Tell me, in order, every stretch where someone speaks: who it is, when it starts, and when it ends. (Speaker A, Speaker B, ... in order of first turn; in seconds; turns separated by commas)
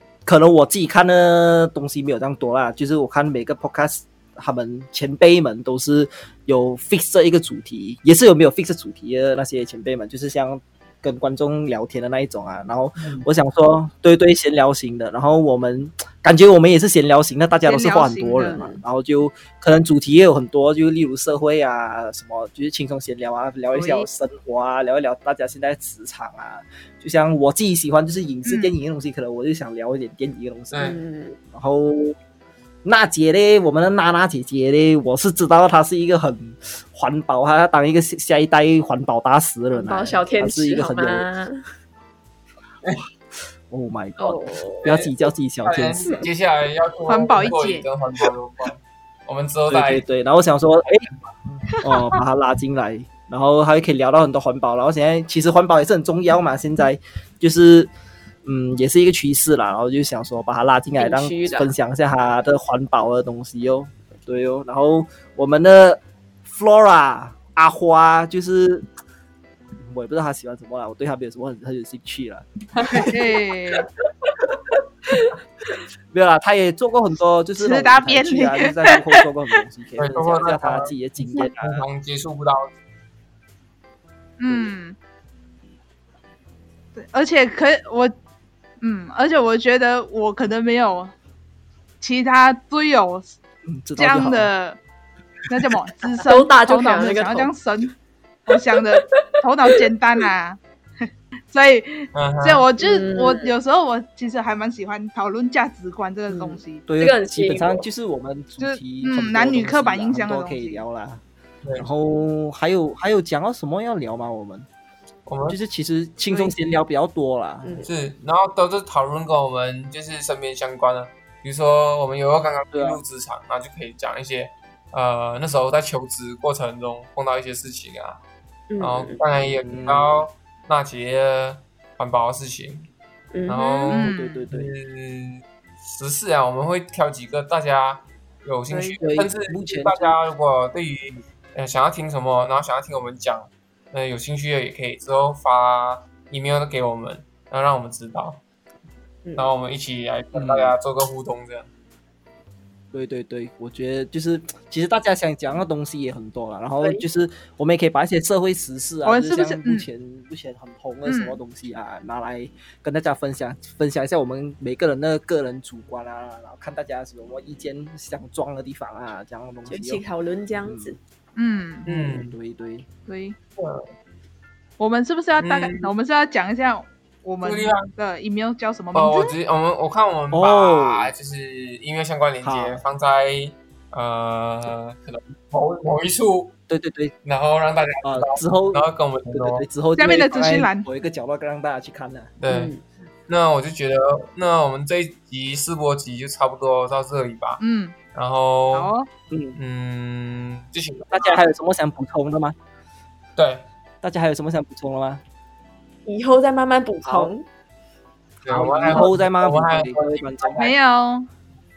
Speaker A: 0.2-30.9, Speaker B: 13.0-13.2, Speaker C: 17.6-18.6, Speaker D: 18.5-18.8, Speaker C: 23.7-24.1, Speaker C: 28.4-28.7, Speaker B: 30.7-31.0, Speaker D: 30.8-31.4, Speaker A: 31.5-32.1, Speaker A: 32.8-41.3, Speaker D: 39.7-41.6, Speaker A: 43.7-46.1, Speaker D: 44.2-44.9, Speaker B: 44.8-45.1, Speaker B: 45.6-50.0, Speaker C: 47.1-47.8, Speaker A: 49.7-51.1, Speaker A: 51.8-57.9, Speaker A: 58.4-68.8, Speaker D: 61.0-61.7, Speaker A: 69.8-73.1, Speaker C: 72.8-73.9, Speaker A: 76.1-81.8, Speaker C: 77.6-79.2, Speaker B: 80.0-82.7, Speaker C: 84.4-85.0, Speaker C: 87.0-88.1, Speaker C: 88.8-91.1, Speaker C: 92.0-93.3, Speaker A: 93.6-94.5, Speaker C: 94.0-94.8, Speaker C: 95.5-97.9, Speaker D: 96.2-97.5, Speaker C: 98.5-106.8, Speaker B: 102.1-102.7, Speaker D: 102.8-103.5, Speaker D: 106.3-107.9, Speaker A: 106.9-111.2, Speaker C: 108.6-110.8, Speaker A: 111.8-114.7, Speaker B: 115.2-115.6, Speaker A: 115.5-117.9, Speaker C: 116.3-116.5, Speaker D: 117.6-117.9, Speaker B: 117.8-128.2, Speaker A: 122.7-123.0, Speaker D: 128.7-129.2, Speaker B: 128.8-132.8, Speaker A: 129.4-130.2, Speaker D: 133.3-133.9, Speaker B: 133.5-148.4, Speaker C: 133.9-134.4, Speaker A: 133.9-134.7, Speaker C: 138.7-139.0, Speaker A: 139.0-140.2, Speaker D: 149.2-149.5, Speaker B: 149.3-151.7, Speaker A: 150.3-150.8, Speaker A: 152.9-170.0, Speaker C: 159.0-159.9, Speaker C: 161.1-161.4, Speaker D: 169.7-171.0, Speaker A: 170.6-171.0, Speaker C: 171.3-171.9, Speaker B: 171.8-172.4, Speaker A: 171.9-172.9, Speaker C: 173.1-173.3, Speaker B: 173.6-173.9, Speaker C: 174.8-179.3, Speaker B: 175.4-175.9, Speaker B: 177.4-177.9, Speaker B: 178.9-186.5, Speaker A: 180.3-181.1, Speaker A: 182.4-182.8, Speaker A: 186.7-187.1, Speaker B: 187.2-189.6, Speaker A: 188.0-192.3, Speaker C: 189.9-190.8, Speaker B: 192.4-192.7, Speaker D: 192.5-192.8, Speaker B: 193.3-197.6, Speaker C: 197.6-197.9, Speaker B: 198.1-198.9, Speaker C: 198.7-199.1, Speaker A: 199.3-199.6, Speaker B: 199.6-201.4, Speaker A: 201.1-202.5, Speaker B: 203.3-203.7, Speaker A: 204.0-205.2, Speaker D: 206.0-207.4, Speaker A: 207.0-207.3, Speaker B: 208.4-210.7, Speaker A: 208.4-210.7, Speaker C: 210.6-211.3